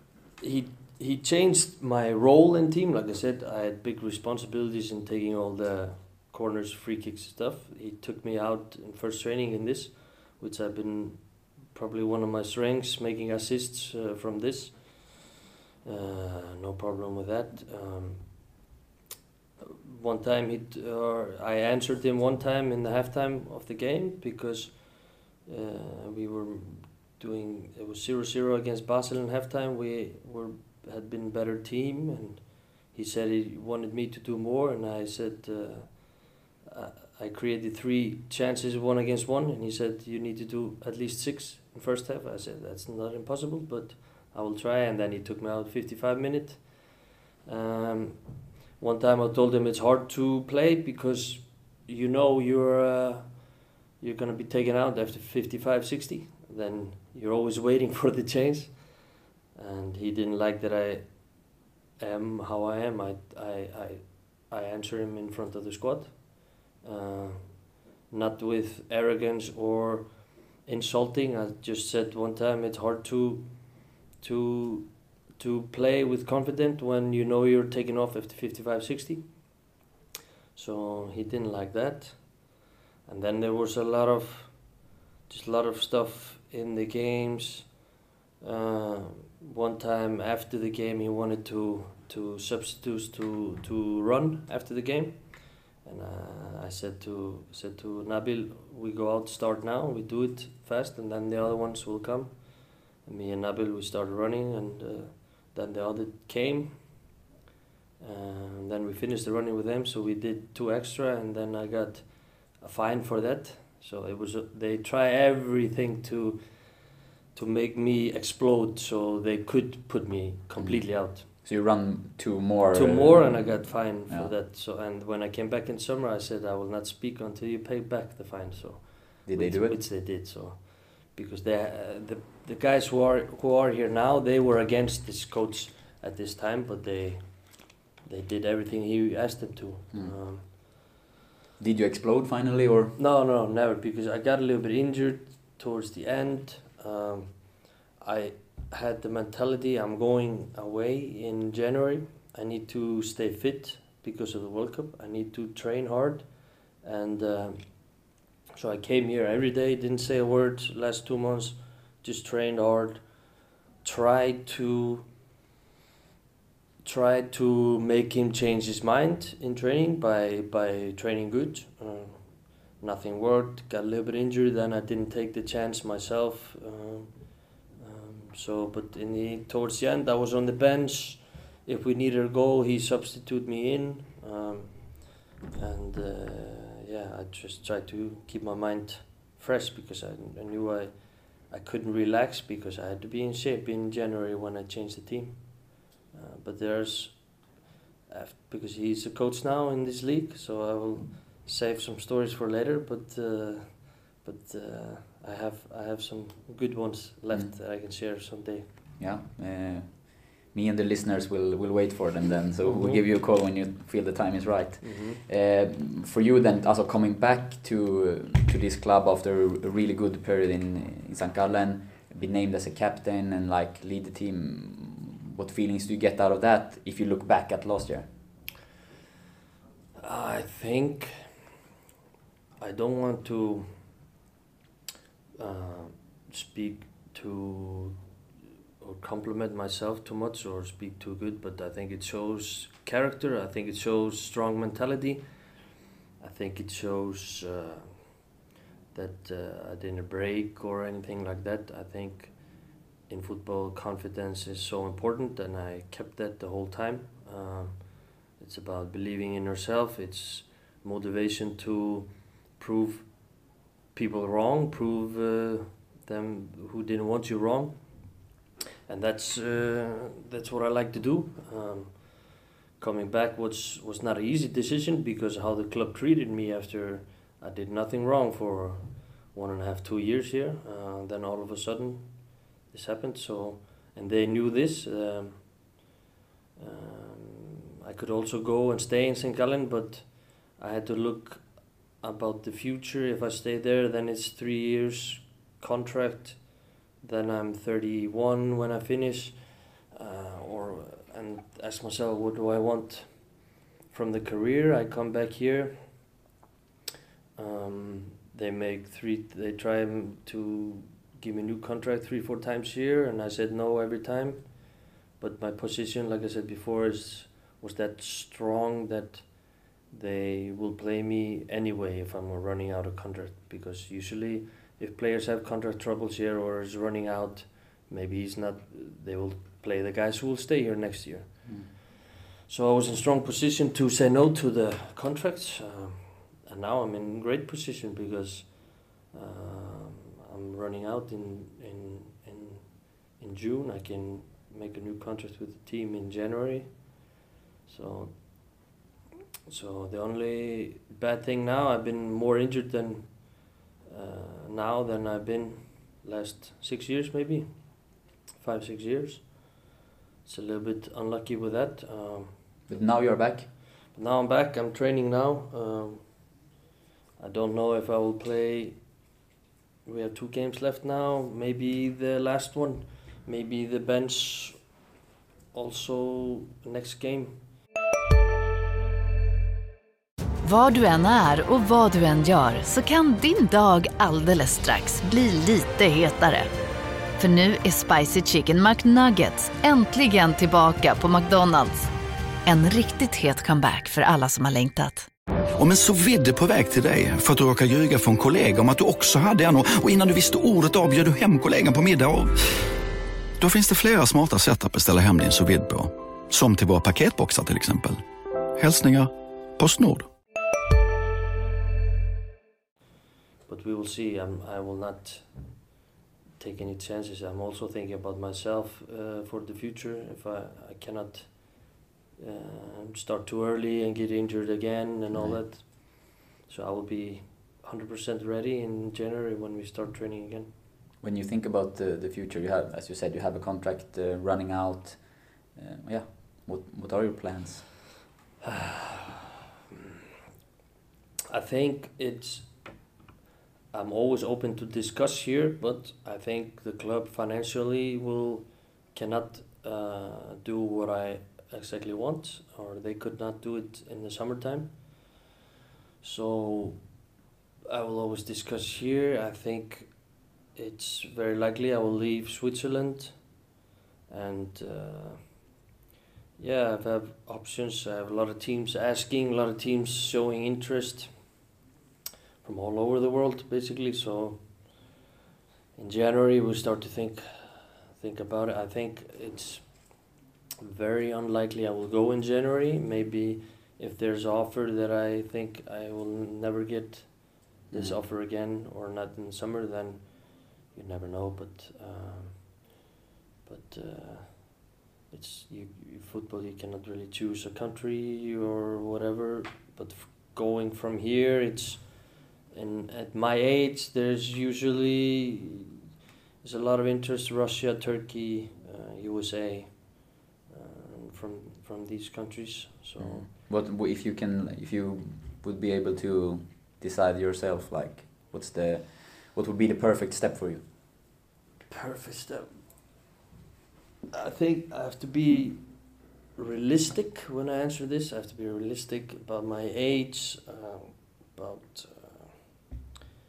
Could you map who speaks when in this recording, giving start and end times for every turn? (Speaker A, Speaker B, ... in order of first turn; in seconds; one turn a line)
Speaker A: 0.4-15.3
Speaker A: 15.8-18.6
Speaker A: 19.9-79.6
Speaker A: 80.5-82.5
Speaker A: 83.0-87.8
Speaker A: 88.4-107.1
Speaker A: 108.0-121.3
Speaker B: 120.6-124.3
Speaker A: 122.7-140.4
Speaker B: 129.2-129.8
Speaker B: 141.6-142.9
Speaker A: 142.9-165.1
Speaker A: 166.8-197.5
Speaker A: 198.1-208.7
Speaker B: 209.0-228.1
Speaker A: 212.6-213.0
Speaker A: 214.8-215.2
Speaker A: 230.0-231.4
Speaker A: 232.6-233.7
Speaker A: 235.4-238.0
Speaker A: 238.8-245.5
Speaker A: 246.2-248.1
Speaker A: 248.9-268.2
Speaker A: 268.9-285.8
Speaker A: 286.6-306.1
Speaker A: 307.4-331.8
Speaker B: 331.4-331.7
Speaker A: 332.5-347.0
Speaker A: 347.6-348.6
Speaker A: 349.5-359.7
Speaker A: 360.2-362.4
Speaker B: 362.7-363.5
Speaker A: 363.9-366.4
Speaker A: 367.2-369.0
Speaker A: 369.8-374.8
Speaker A: 375.5-377.5
Speaker C: 380.4-386.5
Speaker C: 387.2-391.9
Speaker C: 392.4-395.1
Speaker D: 395.6-402.4
Speaker D: 403.4-408.0
Speaker D: 408.6-410.1
Speaker A: 413.5-415.7
Speaker A: 416.4-430.5
Speaker B: 425.1-425.4
Speaker B: 431.0-437.7
Speaker A: 438.4-439.1
Speaker A: 441.3-442.8
Speaker A: 443.7-455.1
Speaker A: 456.0-457.0
Speaker A: 457.7-463.4
Speaker A: 464.1-465.4
Speaker A: 466.4-471.3
Speaker A: 472.4-474.8
Speaker A: 475.8-480.0
Speaker A: 480.6-492.7
Speaker B: 487.7-488.0
Speaker A: 493.4-505.6
Speaker A: 506.4-513.3
Speaker B: 513.0-520.7
Speaker A: 521.7-522.6
Speaker A: 524.1-532.4